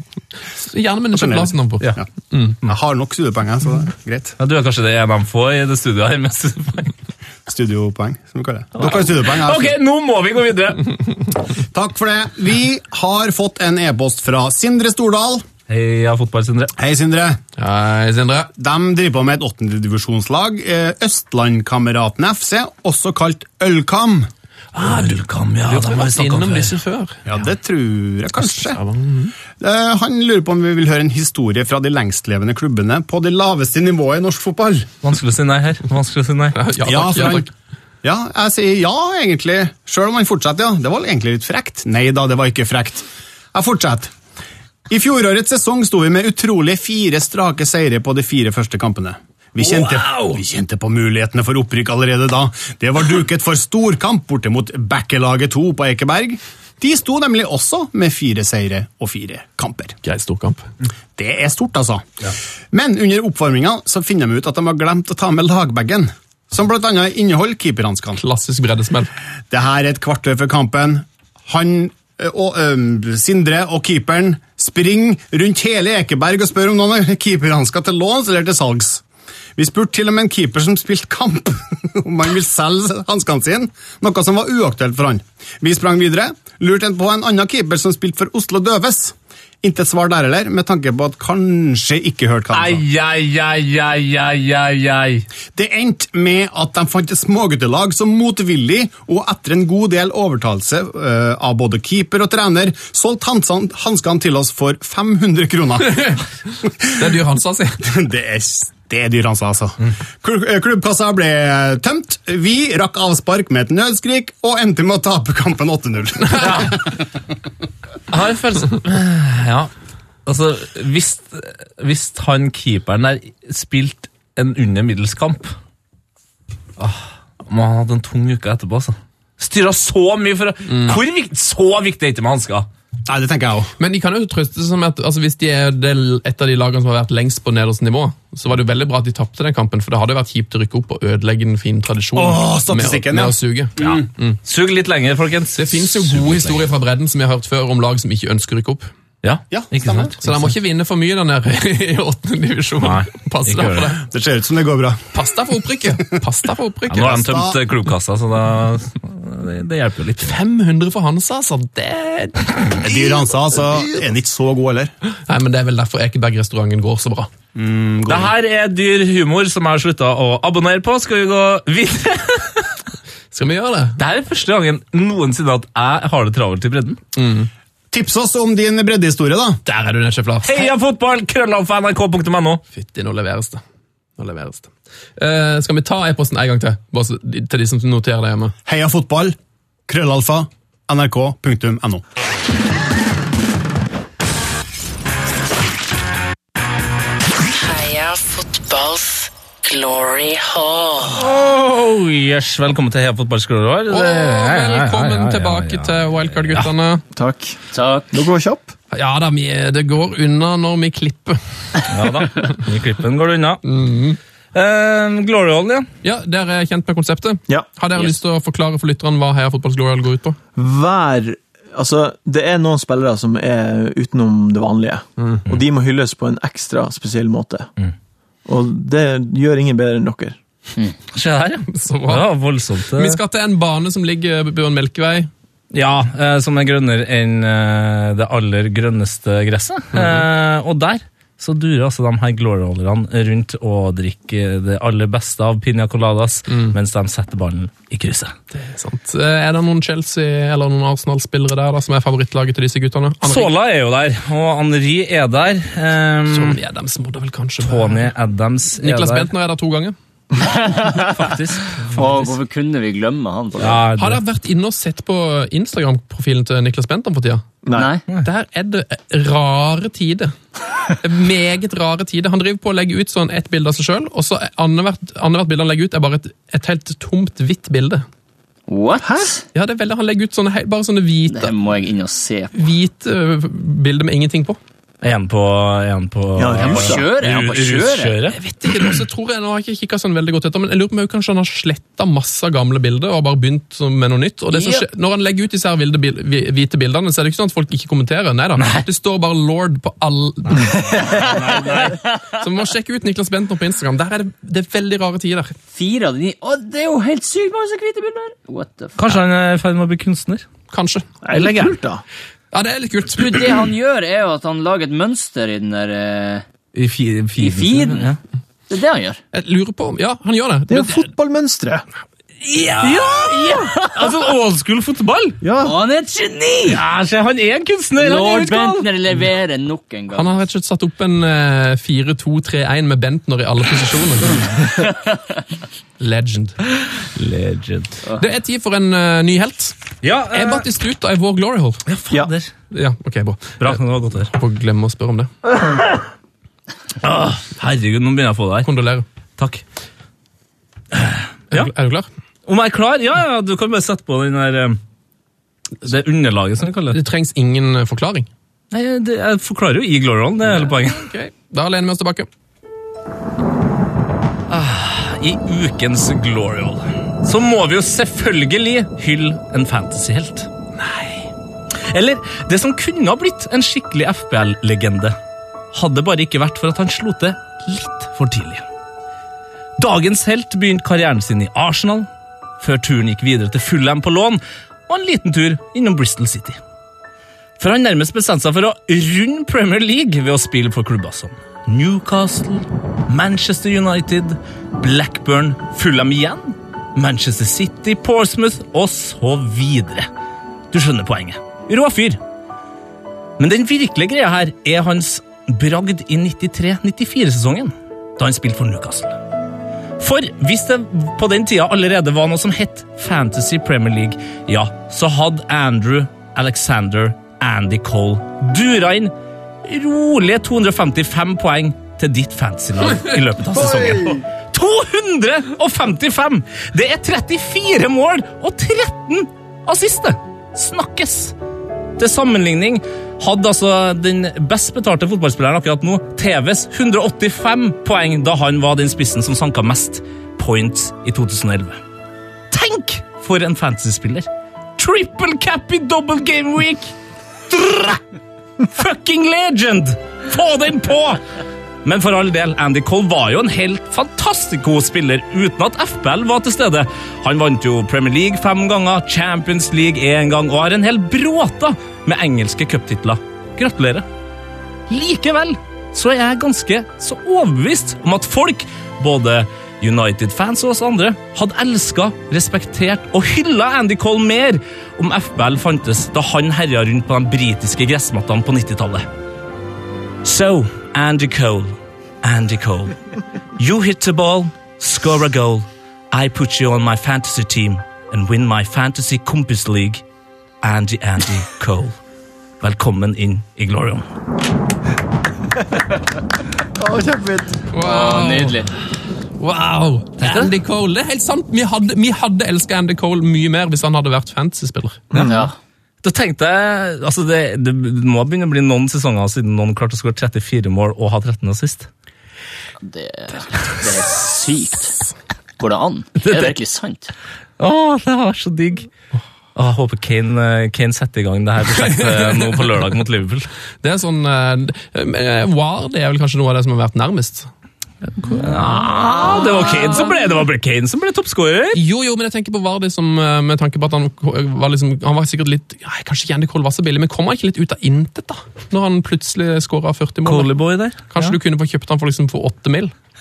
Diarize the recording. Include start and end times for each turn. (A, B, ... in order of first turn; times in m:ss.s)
0:00.6-0:02.6 A
0:01.1-0:02.0 B
0:02.6-0:04.4 B
0:04.4-0:07.0 C
0:07.5-0:09.8 B
0:08.8-0:11.0 C
0:11.7-0:15.5 B
0:15.7-0:16.7 C
0:16.8-0:17.4 B
0:17.6-0:18.5 A
0:18.6-0:24.3 B
0:24.8-0:27.2 A
0:24.8-0:26.8 C
0:27.3-0:28.8 B
0:28.4-0:29.3 A
0:29.6-0:34.9 B
0:35.0-0:36.6 C
0:36.5-0:37.5 A
0:36.8-0:37.5 B
0:38.0-0:44.1 B
0:44.9-1:00.0 B
0:49.7-0:50.2 C
1:00.0-1:00.6 A
1:01.2-1:02.1 B
1:02.7-1:08.2 B
1:08.2-1:09.1 A
1:09.5-1:19.0 B
1:19.6-1:32.8 B
1:32.5-1:35.3 C
1:35.6-1:46.1 B
1:47.0-1:47.8 A
1:47.8-1:57.0 B
1:56.4-1:56.7 C
1:58.1-1:59.7 C
2:00.3-2:05.6 C
2:06.8-2:12.7 C
2:10.7-2:11.0 A
2:13.1-2:13.7 B
2:13.8-2:24.4 A
2:22.2-2:24.0 B
2:23.8-2:26.7 C
2:25.6-2:28.9 A
2:29.2-2:30.5 C
2:29.5-2:30.2 B
2:30.2-2:34.0 A
2:32.8-2:33.9 C
2:34.0-2:35.1 B
2:35.1-2:37.4 A
2:36.9-2:40.4 C
2:37.2-2:37.6 B
2:40.2-2:42.9 A
2:42.7-2:44.9 B
2:45.3-2:47.3 A
2:47.6-2:48.3 B
2:48.1-2:52.7 C
2:53.3-2:54.0 A
2:54.0-2:57.0 C
2:57.2-2:57.5 A
2:57.9-2:59.6 B
2:59.7-3:00.7 A
3:00.4-3:02.6 C
3:02.7-3:03.6 A
3:04.2-3:08.6 A
3:08.7-3:09.4 B
3:09.9-3:12.0 B
3:17.6-3:21.2 D
3:21.1-3:26.7 C
3:23.9-3:27.0 A
3:27.1-3:27.6 E
3:27.7-3:28.1 D
3:28.1-3:28.7 E
3:28.9-3:32.4 A
3:31.9-3:33.6 C
3:33.6-3:34.2 A
3:34.5-3:35.9 C
3:36.0-3:40.4 A
3:40.6-3:47.7 E
3:48.5-3:50.4 E
3:51.1-3:53.2 C
3:51.7-3:52.3 A
3:53.0-3:55.3 A
3:55.7-4:08.3 C
4:00.0-4:00.2 A
4:08.5-4:13.5 A
4:13.2-4:16.6 C
4:16.3-4:18.1 A
4:17.6-4:19.3 C
4:18.8-4:20.0 A
4:20.4-4:21.3 D
4:20.8-4:22.3 C
4:21.9-4:23.8 D
4:23.6-4:24.2 C
4:24.0-4:27.4 A
4:27.7-4:28.0 D
4:28.2-4:30.3 A
4:31.0-4:38.0 A
4:38.7-4:39.4 D
4:39.0-4:39.3 E
4:39.5-4:41.5 A
4:41.3-4:42.5 D
4:42.5-4:44.6 A
4:45.0-4:48.9 C
4:46.4-4:47.1 E
4:46.6-4:48.2 D
4:48.3-5:01.3 A
4:54.5-4:54.8 D
4:58.6-4:58.8 C
5:00.8-5:02.1 D
5:01.3-5:01.8 C
5:02.3-5:05.6 A
5:05.7-5:09.2 D
5:09.0-5:10.4 C
5:10.7-5:11.1 A
5:11.2-5:12.0 E
5:11.3-5:11.8 C
5:12.5-5:13.5 A
5:13.1-5:16.4 D
5:16.8-5:18.2 C
5:17.4-5:18.2 D
5:18.7-5:19.2 D
5:19.3-5:21.0 A
5:20.7-5:21.8 E
5:22.4-5:25.4 C
5:22.8-5:24.2 D
5:25.4-5:25.7 E
5:25.6-5:26.8 D
5:26.7-5:28.9 C
5:28.0-5:30.5 D
5:30.1-5:34.5 A
5:36.0-5:36.6 A
5:37.0-5:38.0 C
5:38.1-5:39.8 A
5:40.0-5:40.7 C
5:40.3-5:41.8 A
5:41.9-5:42.5 C
5:42.7-5:43.8 A
5:43.6-5:44.3 C
5:44.3-5:45.3 A
5:47.0-5:48.7 C
5:48.6-5:49.0 A
5:49.4-5:49.6 C
5:50.9-5:51.7 C
5:51.5-5:52.1 A
5:52.5-5:54.8 C
5:55.8-5:57.0 C
5:56.9-5:58.3 A
5:58.7-6:01.1 C
6:00.5-6:02.3 A
6:04.5-6:10.5 C
6:10.8-6:11.3 A
6:11.8-6:15.2 C
6:15.7-6:18.6 C
6:19.8-6:22.1 C
6:22.6-6:26.6 C
6:27.6-6:40.1 C
6:40.7-6:42.2 C
6:43.4-6:49.2 C
6:50.0-6:59.1 C
6:59.6-7:11.3 C
7:03.6-7:04.2 E
7:12.0-7:21.8 C
7:22.5-7:26.9 C
7:27.5-7:28.0 C
7:28.6-7:31.2 C
7:31.8-7:44.1 C
7:44.9-7:59.1 C
8:00.2-8:03.0 C
8:03.6-8:10.0 C
8:10.6-8:12.0 C
8:12.6-8:14.0 C
8:16.8-8:17.7 E
8:17.7-8:18.6 A
8:17.8-8:18.7 D
8:19.4-8:25.3 A
8:20.2-8:20.5 C
8:25.2-8:25.5 D
8:26.0-8:31.9 C
8:32.8-8:35.0 D
8:35.6-8:37.1 D
8:36.2-8:36.6 C
8:37.6-8:38.9 C
8:39.6-8:43.5 C
8:41.8-8:42.7 A
8:43.8-8:47.5 A
8:48.2-8:51.8 C
8:51.7-9:00.5 A
9:00.2-9:01.4 C
9:01.1-9:02.9 A